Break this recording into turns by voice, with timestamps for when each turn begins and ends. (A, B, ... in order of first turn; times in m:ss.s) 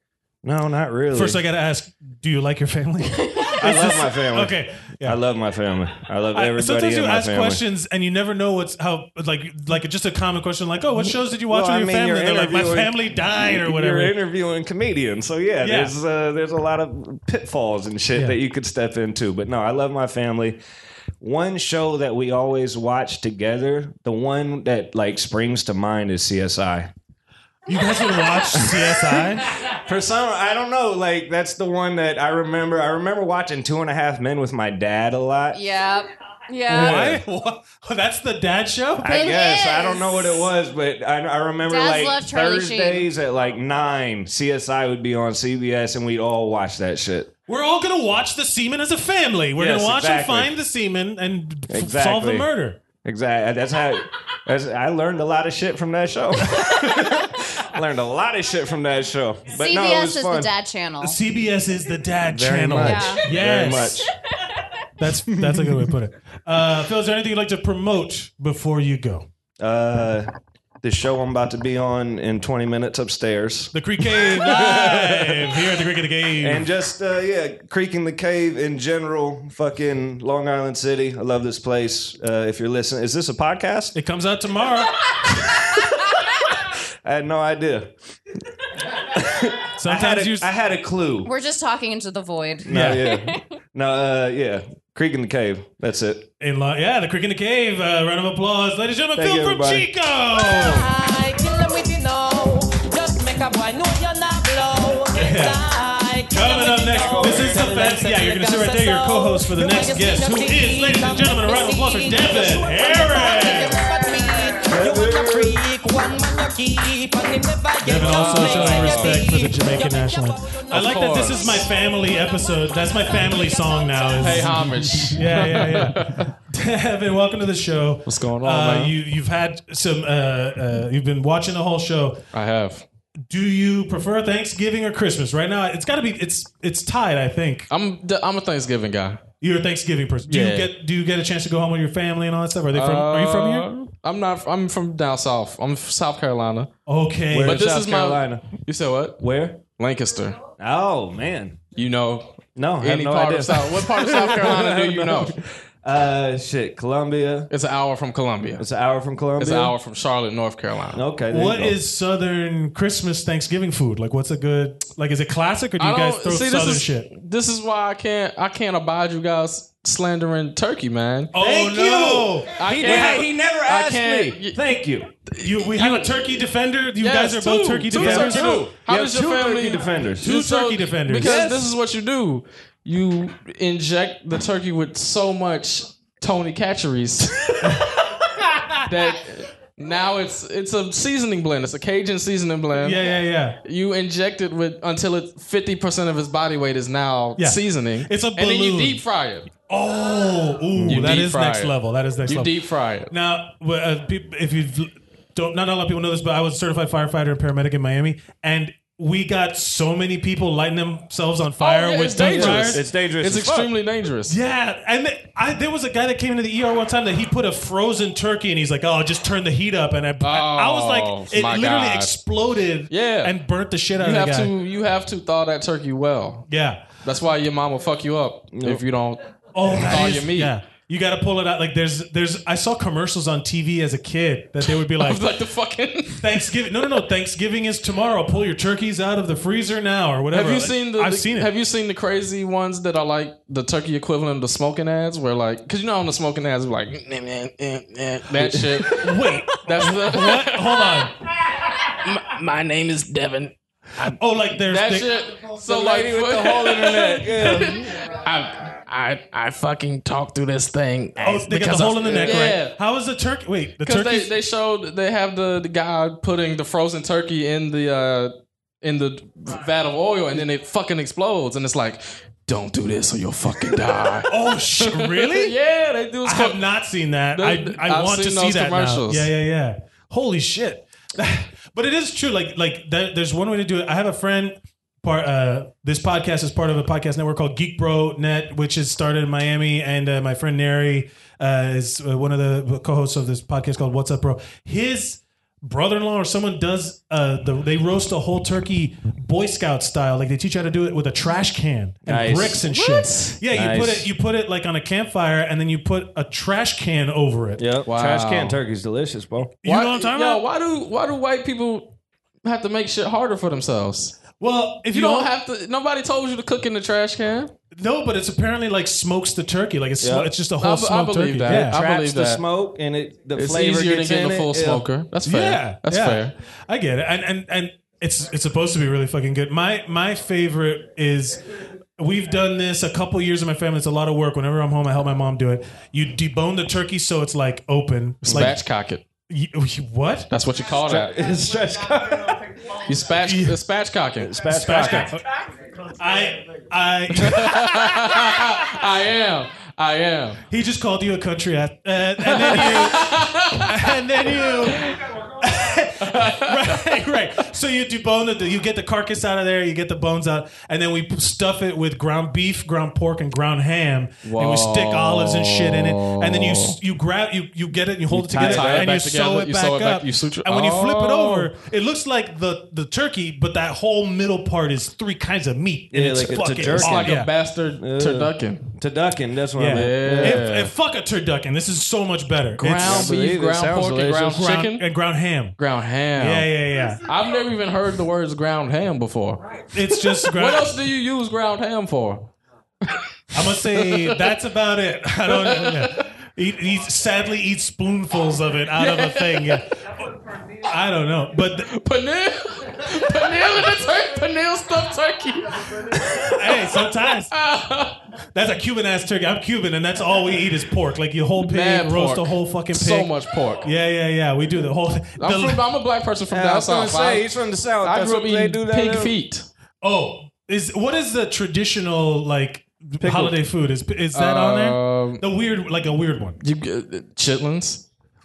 0:00.4-0:01.4 A
0:01.1-0:05.2 B
0:03.6-0:07.6 A
0:06.3-0:14.2 B
0:11.0-0:20.6 A
0:15.6-0:15.9 B
0:18.1-0:18.4 B
0:21.2-0:26.9 A
0:27.7-0:29.5 B
0:28.5-0:35.6 A
0:35.5-0:37.0 C
0:36.7-0:37.2 A
0:36.7-0:39.3 B
0:39.0-0:47.3 A
0:39.0-0:40.5 C
0:41.6-0:43.1 C
0:47.5-0:52.8 B
0:49.6-0:50.5 A
0:51.7-0:52.5 A
0:53.0-1:00.5 A
0:56.5-0:57.2 B
0:59.5-1:01.2 C
1:01.0-1:04.1 B
1:02.3-1:04.1 A
1:02.8-1:03.2 C
1:05.0-1:09.3 B
1:09.6-1:10.3 A
1:10.8-1:15.6 A
1:13.7-1:16.7 B
1:16.4-1:24.0 A
1:23.9-1:25.1 B
1:27.0-1:27.9 A
1:29.0-1:31.3 A
1:29.8-1:30.5 B
1:31.2-1:33.4 C
1:32.6-1:36.3 A
1:32.7-1:33.0 B
1:36.4-1:40.8 B
1:39.2-1:39.9 A
1:40.4-2:01.7 D
1:45.2-1:45.6 B
1:46.3-1:53.8 B
1:46.9-1:47.7 A
1:54.7-1:55.6 A
1:57.8-2:12.2 B
1:58.0-1:59.3 E
2:00.7-2:01.7 E
2:03.2-2:04.4 D
2:04.2-2:06.3 E
2:08.0-2:09.0 E
2:12.3-2:12.8 E
2:13.3-2:17.7 B
2:17.7-2:19.2 E
2:19.4-2:23.7 B
2:20.3-2:20.7 E
2:22.7-2:26.7 E
2:26.9-2:27.6 B
2:27.3-2:28.6 A
2:27.4-2:30.5 E
2:29.2-2:29.7 A
2:30.6-2:31.7 A
2:31.7-2:35.4 E
2:32.6-2:37.5 A
2:37.5-2:38.7 E
2:38.6-2:39.8 A
2:39.4-2:41.1 E
2:40.9-2:41.8 A
2:41.3-2:47.1 B
2:45.8-2:51.5 E
2:51.3-2:53.2 B
2:51.4-2:55.1 A
2:52.4-2:54.7 E
2:55.3-2:56.4 E
2:55.4-2:59.6 B
2:57.0-3:08.0 E
2:57.9-3:00.4 A
3:00.2-3:01.5 B
3:01.1-3:01.7 A
3:07.6-3:08.8 B
3:08.9-3:19.5 E
3:12.8-3:13.6 B
3:17.4-3:19.0 B
3:19.7-3:32.8 B
3:20.8-3:21.1 A
3:20.8-3:23.1 E
3:31.6-3:34.4 E
3:32.2-3:33.7 A
3:34.3-3:44.5 B
3:40.2-3:42.2 E
3:42.9-3:43.4 E
3:43.9-3:46.5 E
3:46.5-3:46.9 B
3:47.0-3:50.6 E
3:48.5-3:48.9 A
3:49.5-3:55.3 B
3:54.6-3:57.0 E
3:56.2-4:01.5 B
4:00.3-4:22.8 E
4:08.8-4:11.1 B
4:14.0-4:15.2 B
4:15.6-4:18.0 A
4:21.2-4:24.3 B
4:22.1-4:22.4 A
4:23.8-4:36.6 E
4:34.3-4:35.6 B
4:36.2-5:07.6 B
4:37.3-4:39.3 E
5:02.1-5:02.6 A
5:02.6-5:03.4 E
5:03.5-5:04.1 A
5:07.6-5:09.6 A
5:07.9-5:08.6 E
5:09.6-5:10.4 B
5:09.6-5:14.3 E
5:14.4-5:15.3 B
5:14.9-5:17.5 E
5:17.7-5:21.8 B
5:20.0-5:20.3 A
5:20.6-5:22.4 E
5:21.5-5:24.9 A
5:23.4-5:26.3 E
5:25.2-5:31.4 B
5:32.0-5:38.6 B
5:38.3-5:38.6 A
5:38.3-5:39.0 E
5:39.3-5:40.3 B
5:40.3-5:41.2 E
5:40.7-5:42.5 A
5:42.8-5:45.1 E
5:43.2-5:43.6 B
5:44.2-5:45.2 A
5:44.4-5:45.2 B
5:46.0-5:48.8 B
5:47.2-5:50.4 E
5:50.5-6:17.3 B
5:52.2-5:54.9 E
5:56.0-5:56.8 E
6:04.2-6:06.8 E
6:08.1-6:11.5 E
6:08.4-6:08.9 A
6:15.9-6:17.3 A
6:16.7-6:18.7 E
6:17.8-6:20.5 A
6:19.6-6:23.1 B
6:19.7-6:20.7 E
6:22.6-6:24.9 E
6:22.8-6:24.4 A
6:24.3-6:25.6 B
6:25.6-6:32.3 E
6:26.2-6:27.0 B
6:29.7-6:30.8 B
6:32.8-6:34.4 E
6:33.3-6:39.7 B
6:35.3-6:36.0 E
6:38.8-6:39.6 E
6:40.7-6:41.7 B
6:41.6-6:48.0 E
6:46.3-6:47.3 B
6:48.3-6:55.6 B
6:51.4-6:53.7 E
6:55.2-6:59.5 E
6:56.3-6:59.2 A
6:59.8-7:06.4 B
7:03.0-7:03.4 E
7:04.1-7:05.2 E
7:06.4-7:07.8 E